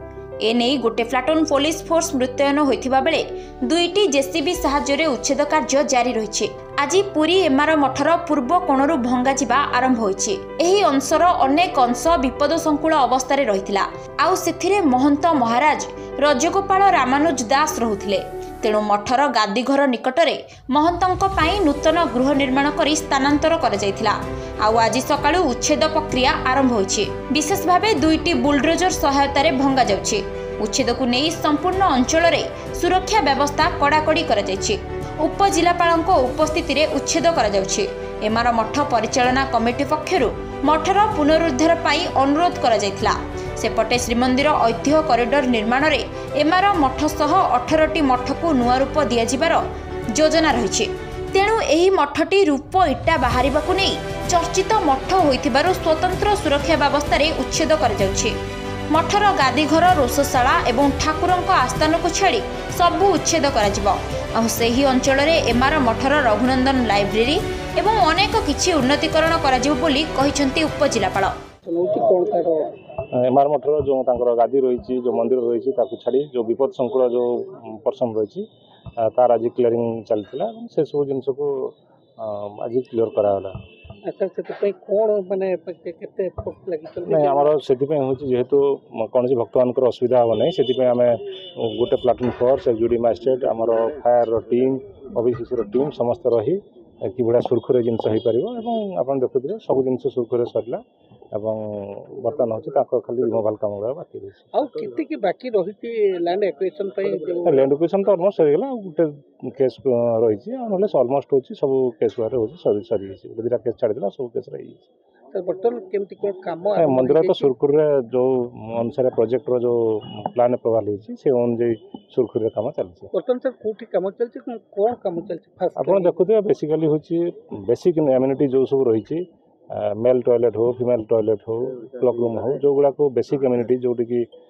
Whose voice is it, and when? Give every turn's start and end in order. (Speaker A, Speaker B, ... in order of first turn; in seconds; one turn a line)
Speaker A: 0.4-49.6
Speaker A: 50.1-58.3
Speaker A: 58.9-71.3
Speaker B: 71.7-72.7
Speaker C: 73.2-78.4
Speaker C: 79.0-83.5
Speaker B: 84.0-87.5
Speaker C: 87.1-100.8
Speaker C: 101.3-104.5
Speaker B: 104.5-107.7
Speaker C: 107.4-114.9
Speaker B: 115.3-117.5
Speaker C: 116.8-123.1
Speaker B: 123.1-126.2
Speaker C: 125.8-134.2